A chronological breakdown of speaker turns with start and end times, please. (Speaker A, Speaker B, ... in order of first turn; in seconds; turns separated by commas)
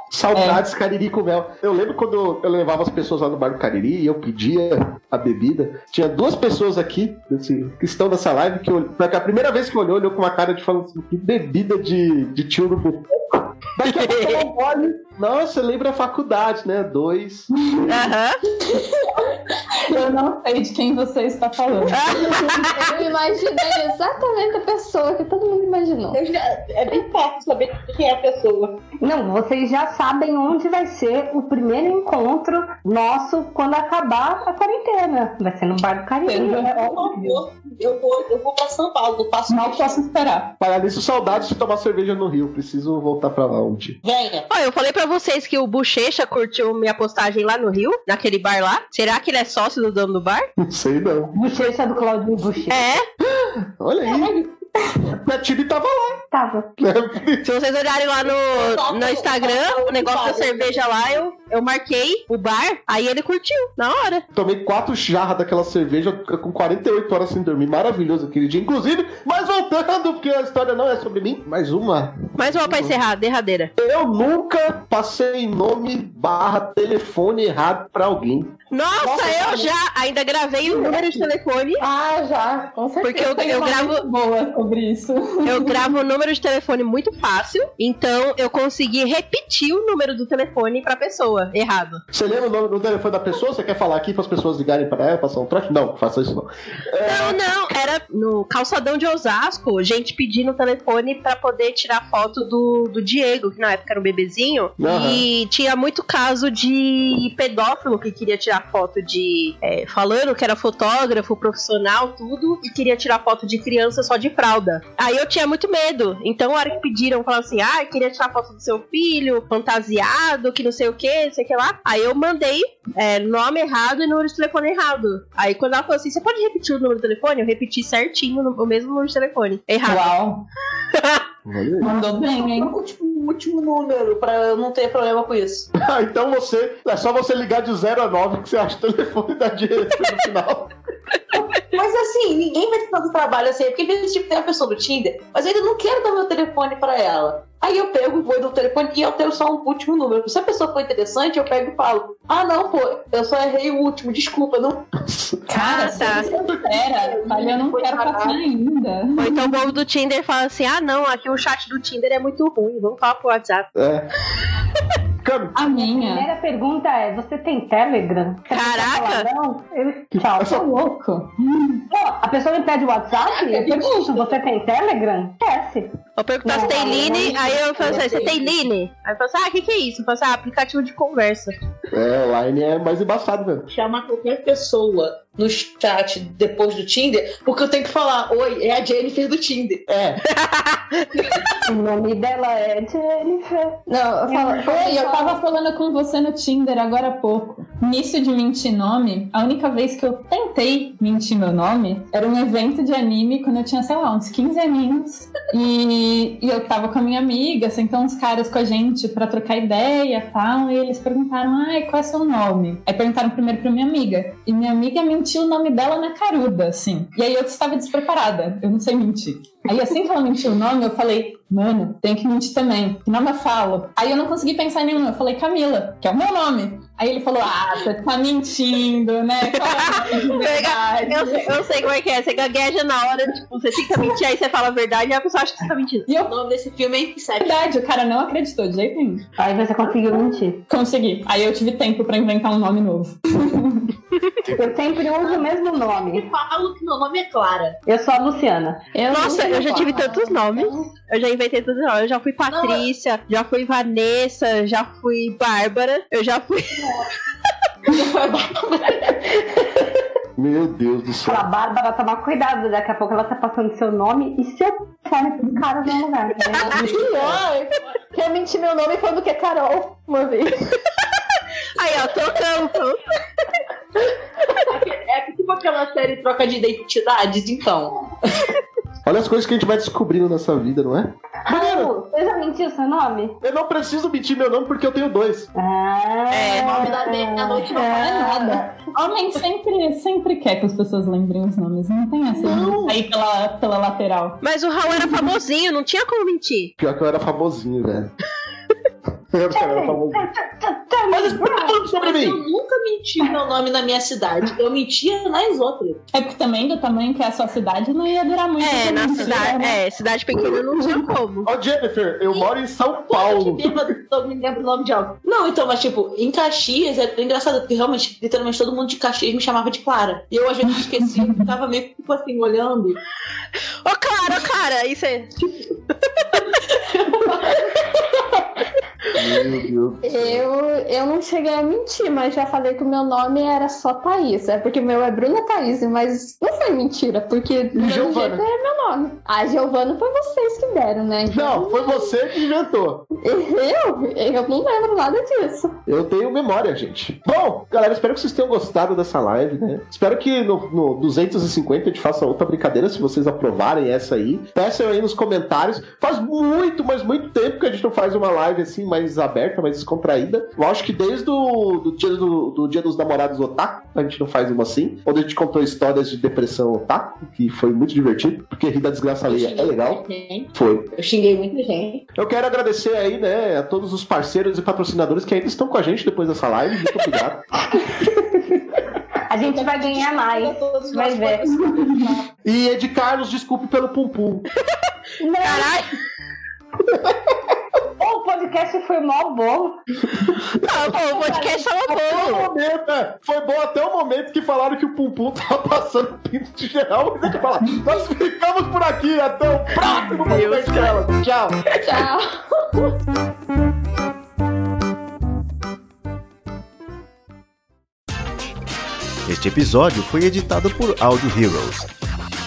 Speaker A: 0.1-17.5, Speaker B: 0.3-0.6, Speaker C: 13.8-14.5, Speaker B: 17.7-18.0, Speaker C: 17.9-18.4, Speaker B: 18.7-22.7, Speaker C: 21.9-22.8, Speaker D: 22.6-26.2, Speaker E: 26.1-28.8, Speaker F: 29.0-37.4, Speaker B: 36.2-36.8, Speaker E: 36.8-40.0, Speaker B: 39.5-40.5, Speaker A: 40.6-44.0, Speaker E: 44.0-44.5, Speaker C: 44.5-50.5, Speaker A: 50.6-51.3, Speaker F: 51.3-52.8, Speaker C: 52.7-53.1, Speaker A: 53.3-54.5, Speaker A: 55.1-56.2, Speaker F: 56.3-56.6, Speaker A: 56.8-57.5, Speaker C: 57.4-64.2, Speaker E: 58.4-61.1, Speaker A: 64.3-73.0, Speaker C: 72.4-73.7, Speaker A: 73.8-78.5, Speaker C: 78.7-81.9, Speaker E: 79.0-79.7, Speaker D: 80.7-81.0, Speaker D: 81.8-83.6, Speaker C: 83.0-84.0, Speaker B: 83.3-85.9, Speaker C: 85.5-92.0, Speaker A: 92.1-97.4, Speaker C: 97.0-130.1, Speaker A: 104.8-105.3, Speaker B: 129.9-130.4, Speaker C: 130.9-131.2, Speaker A: 131.4-131.9, Speaker B: 131.8-132.7, Speaker E: 132.0-135.7, Speaker A: 135.8-140.7, Speaker E: 141.7-154.8, Speaker A: 155.1-155.4, Speaker B: 155.5-159.7, Speaker E: 155.6-158.4, Speaker C: 155.6-156.3, Speaker C: 159.2-163.7, Speaker A: 163.8-164.1, Speaker A: 165.2-165.5, Speaker B: 165.6-166.3, Speaker F: 165.6-170.8, Speaker C: 168.5-169.3, Speaker A: 170.2-170.7, Speaker B: 170.4-171.8, Speaker F: 171.9-178.3, Speaker E: 173.2-174.4, Speaker C: 176.2-181.5, Speaker E: 176.7-178.7, Speaker A: 181.9-183.7, Speaker E: 183.7-189.8, Speaker A: 189.9-190.2, Speaker C: 190.3-191.4, Speaker F: 191.7-194.7, Speaker D: 193.9-195.4, Speaker B: 194.6-231.6, Speaker C: 229.5-236.1, Speaker B: 236.1-236.3, Speaker E: 236.2-237.6, Speaker B: 237.4-239.2, Speaker F: 239.4-240.6, Speaker B: 240.7-243.9, Speaker F: 244.5-246.3, Speaker E: 245.2-247.8, Speaker F: 247.9-248.8, Speaker D: 248.9-250.9, Speaker C: 249.1-256.9, Speaker E: 252.5-252.9, Speaker E: 257.9-259.5, Speaker A: 260.4-261.4, Speaker F: 261.2-267.2, Speaker E: 266.5-267.4, Speaker D: 266.8-270.6, Speaker C: 271.8-273.0, Speaker E: 274.5-278.5, Speaker A: 279.1-281.9, Speaker F: 281.4-283.4, Speaker A: 283.4-285.5, Speaker F: 285.6-287.6, Speaker C: 286.3-286.9, Speaker E: 286.6-288.5, Speaker B: 287.7-294.4, Speaker A: 292.4-293.0, Speaker C: 294.4-296.7, Speaker A: 296.8-298.1, Speaker A: 299.3-300.3, Speaker F: 299.5-301.8, Speaker A: 301.1-302.4, Speaker E: 301.7-306.0, Speaker B: 306.1-309.8, Speaker C: 308.6-311.5, Speaker B: 310.4-311.1, Speaker A: 311.4-313.9, Speaker E: 313.0-323.0, Speaker B: 320.8-321.4, Speaker C: 323.9-325.3, Speaker A: 329.1-330.4, Speaker D: 330.0-342.1, Speaker A: 337.8-338.4, Speaker A: 341.3-343.0, Speaker D: 343.2-345.7, Speaker A: 345.9-370.0, Speaker E: 369.3-372.0, Speaker A: 370.5-370.9, Speaker A: 372.1-377.4, Speaker F: 377.7-378.6, Speaker F: 379.3-381.6, Speaker E: 379.4-382.3, Speaker B: 381.7-382.0, Speaker A: 382.4-384.5, Speaker F: 385.2-385.8, Speaker C: 385.4-386.0, Speaker F: 388.0-389.8, Speaker A: 390.2-391.2, Speaker C: 390.7-392.5, Speaker F: 391.1-391.6, Speaker A: 391.8-402.1, Speaker C: 400.2-401.0, Speaker D: 401.8-402.9, Speaker G: 409.2-411.9